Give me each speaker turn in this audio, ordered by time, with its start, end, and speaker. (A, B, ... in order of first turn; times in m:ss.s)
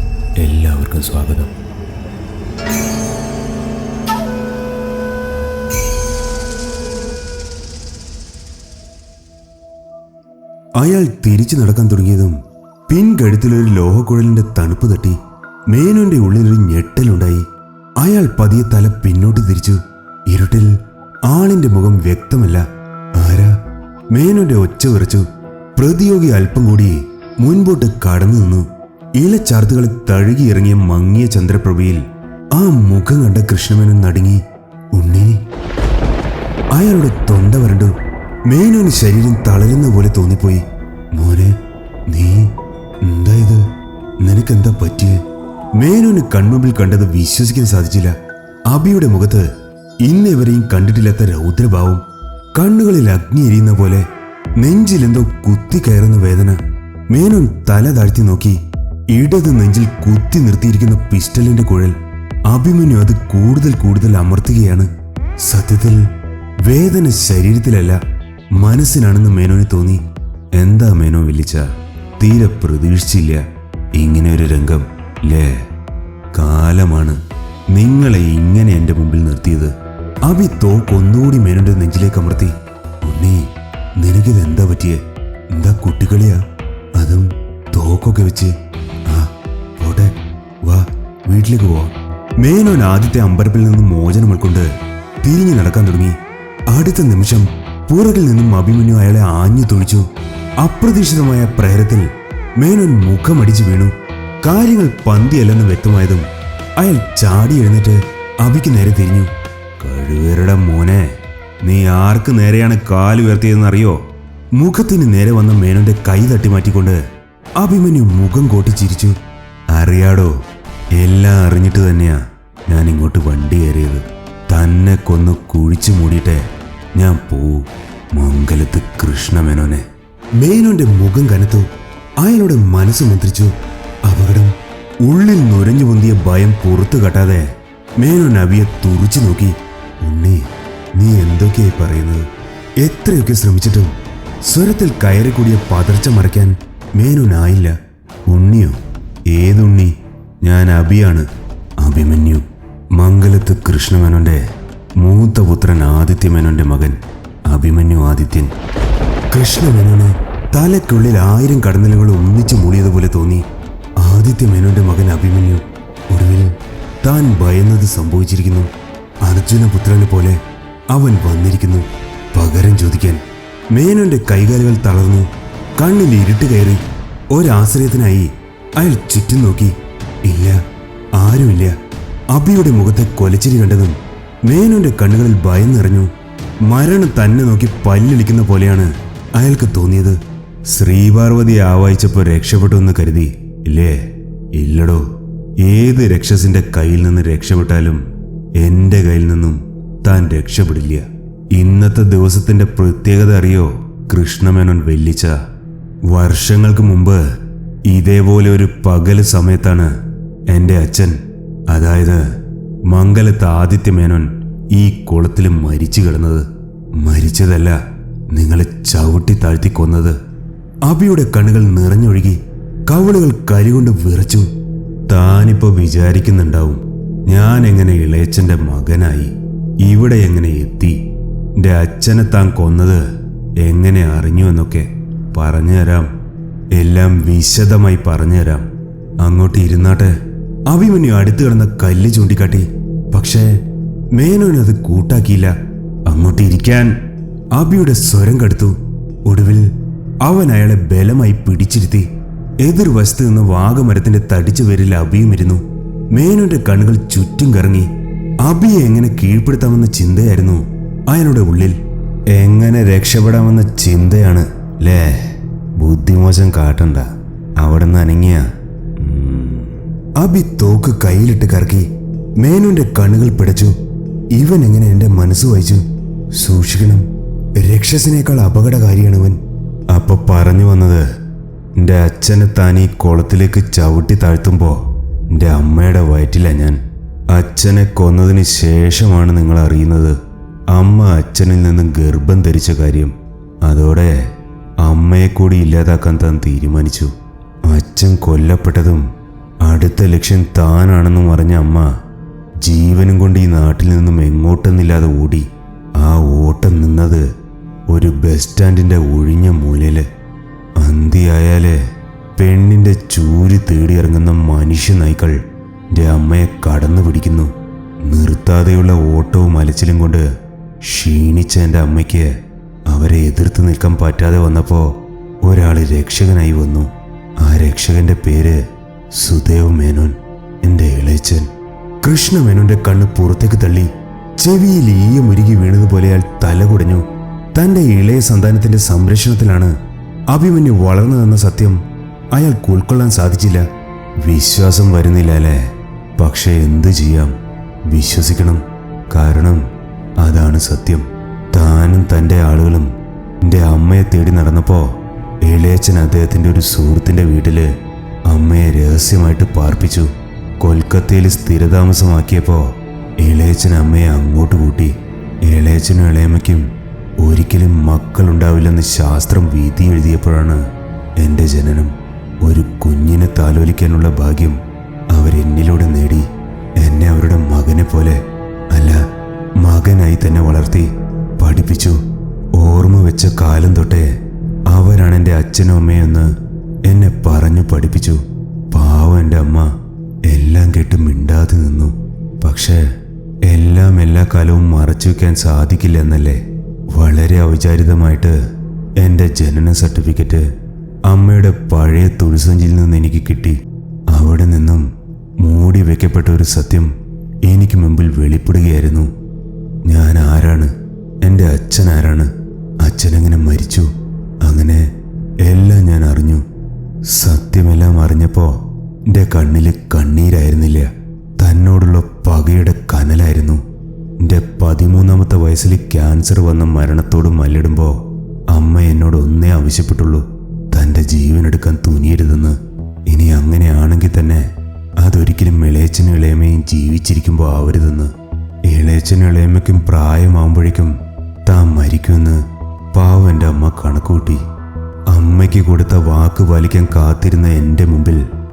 0:00.4-0:01.5 A
0:10.8-0:15.2 A
0:15.7-0:17.4 A
0:18.0-0:20.7 A
0:21.3-0:23.6 A
0:24.1-0:32.0 A
0:32.5-0:34.4 A
0:34.9-0:35.4 A
0:36.7-0:37.9 A
0:38.5-0:40.6 A
0:41.1-0:41.6 A
0:42.1-0:43.7 A
0:44.2-0:45.2 A
0:45.8-0:48.1 A
0:48.7-0:49.5 A
0:50.0-0:52.0 A
0:52.6-0:54.0 A
0:54.6-1:02.0 A
1:02.5-1:04.9 A
1:05.4-1:06.1 A
1:06.6-1:08.0 A
1:08.6-1:10.0 A
1:10.6-1:15.6 A
1:16.3-1:17.2 A
1:17.7-1:19.7 A
1:20.3-1:26.4 A
1:27.0-1:28.5 A
1:29.1-1:34.7 A
1:35.2-1:36.2 A
1:36.7-1:40.1 A
1:40.6-1:51.1 A
1:51.6-1:54.0 A
1:54.6-1:57.0 A
1:57.6-1:59.2 A
1:59.7-2:00.4 A
2:00.9-2:06.4 A
2:07.0-2:09.9 A
2:10.4-2:13.5 A
2:14.1-2:22.3 A
2:22.8-2:23.9 A
2:24.5-2:27.8 A
2:28.3-2:28.8 A
2:29.3-2:31.3 A
2:31.8-2:32.4 A
2:33.0-2:34.4 A
2:35.0-2:38.5 A
2:39.3-2:43.4 A
2:44.0-2:48.7 A
2:49.2-2:50.4 A
2:50.9-2:59.8 A
3:00.3-3:00.6 A
3:01.2-3:01.8 A
3:02.3-3:06.1 A
3:06.6-3:15.0 A
3:15.6-3:18.0 A
3:18.6-3:25.4 A
3:26.1-3:27.2 A
3:27.9-3:29.9 A
3:30.5-3:31.2 A
3:31.7-3:32.2 A
3:32.9-3:36.5 A
3:37.0-3:37.8 A
3:38.3-3:40.2 A
3:40.9-3:44.5 A
3:45.1-3:51.0 A
3:51.6-3:53.0 A
3:53.6-3:56.1 A
3:56.7-3:58.7 A
3:59.2-4:00.1 A
4:00.7-4:03.5 A
4:04.2-4:05.5 A
4:06.1-4:06.9 A
4:07.5-4:09.7 A
4:10.2-4:12.1 A
4:12.6-4:17.9 A
4:18.4-4:21.8 A
4:22.3-4:28.5 A
4:29.0-4:31.9 A
4:32.4-4:33.7 A
4:34.3-4:37.1 A
4:37.6-4:41.1 A
4:41.8-4:44.8 A
4:45.3-4:46.8 A
4:47.3-4:50.2 A
4:50.7-4:53.1 A
4:53.7-4:54.2 A
4:54.8-4:57.1 A
4:57.7-4:59.0 A
4:59.6-5:01.9 A
5:02.6-5:07.2 A
5:07.9-5:10.1 A
5:10.8-5:11.8 A
5:12.4-5:15.4 A
5:15.9-5:17.5 A
5:18.0-5:20.3 A
5:20.8-5:22.3 A
5:22.9-5:28.6 A
5:29.1-5:31.5 A
5:32.0-5:39.7 A
5:40.3-5:41.8 A
5:42.3-5:43.7 A
5:44.2-5:45.7 A
5:46.2-5:47.3 A
5:47.9-5:49.6 A
5:50.2-5:52.9 A
5:53.4-5:57.7 A
5:58.3-6:04.9 A
6:05.4-6:06.7 A
6:07.2-6:10.6 A
6:11.2-6:14.6 A
6:15.1-6:16.3 A
6:16.8-6:19.0 A
6:19.6-6:22.0 A
6:22.6-6:24.1 A
6:24.7-6:26.3 A
6:26.9-6:29.7 A
6:30.3-6:32.8 A
6:33.5-6:36.4 A
6:36.9-6:38.4 A
6:39.0-6:40.5 A
6:41.1-6:43.6 A
6:44.1-6:44.8 A
6:45.4-6:46.9 A
6:47.4-6:49.1 A
6:49.9-6:53.9 A
6:54.4-6:54.9 A
6:55.4-6:56.4 A
6:57.1-7:03.6 A
7:04.2-7:18.1 A
7:18.7-7:20.9 A
7:21.5-7:22.4 A
7:22.9-7:24.4 A
7:25.1-7:28.2 A